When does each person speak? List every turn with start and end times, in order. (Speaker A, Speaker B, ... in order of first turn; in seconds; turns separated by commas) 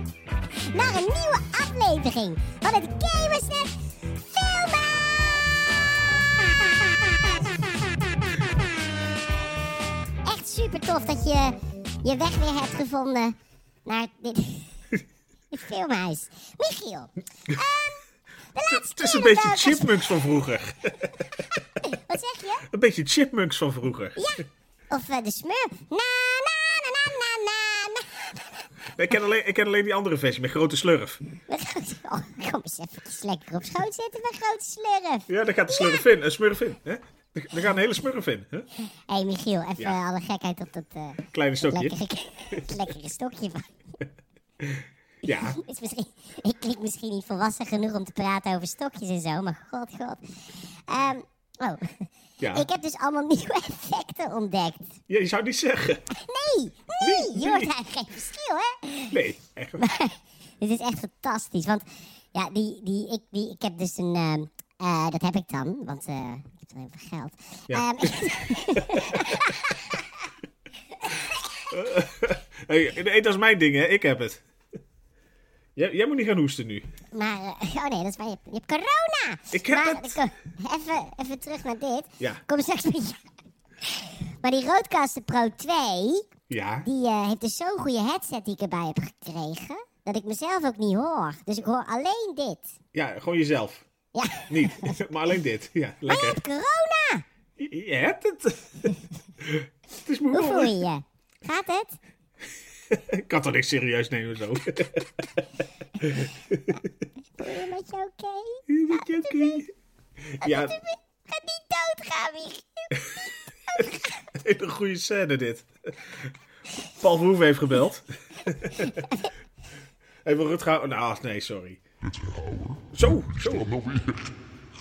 Speaker A: 0.7-5.4, Speaker A: 10.2-13.3, Speaker A: 13.8-14.7, Speaker A: 15.5-18.0, Speaker A: 18.5-20.1, Speaker B: 18.7-21.2, Speaker A: 21.8-22.6, Speaker B: 22.7-24.2, Speaker A: 24.2-28.4, Speaker B: 29.0-31.2, Speaker A: 31.5-36.0, Speaker B: 35.3-38.7, Speaker A: 39.1-43.6, Speaker B: 41.3-41.9, Speaker B: 44.6-45.6, Speaker A: 45.3-55.0, Speaker B: 52.4-52.6, Speaker B: 55.1-56.0, Speaker A: 56.1-59.2, Speaker B: 57.0-57.7, Speaker B: 59.1-59.9, Speaker A: 59.8-70.0, Speaker B: 67.7-69.2, Speaker A: 71.0-71.6, Speaker B: 71.7-74.4, Speaker B: 75.8-76.8, Speaker A: 77.1-83.2, Speaker B: 79.5-80.2, Speaker A: 83.8-86.3, Speaker B: 86.5-86.9, Speaker A: 86.8-92.7, Speaker B: 92.9-93.8, Speaker A: 94.1-95.0, Speaker B: 94.5-96.4, Speaker A: 96.1-97.2, Speaker B: 97.6-100.7, Speaker A: 100.3-102.0, Speaker B: 102.9-105.2, Speaker B: 106.0-106.7, Speaker A: 107.4-109.6, Speaker B: 108.7-109.7, Speaker B: 110.2-110.8, Speaker A: 110.4-114.1, Speaker B: 114.3-116.3, Speaker B: 117.0-119.0, Speaker A: 118.9-119.2, Speaker B: 120.2-121.8, Speaker C: 122.0-124.4, Speaker B: 122.9-123.6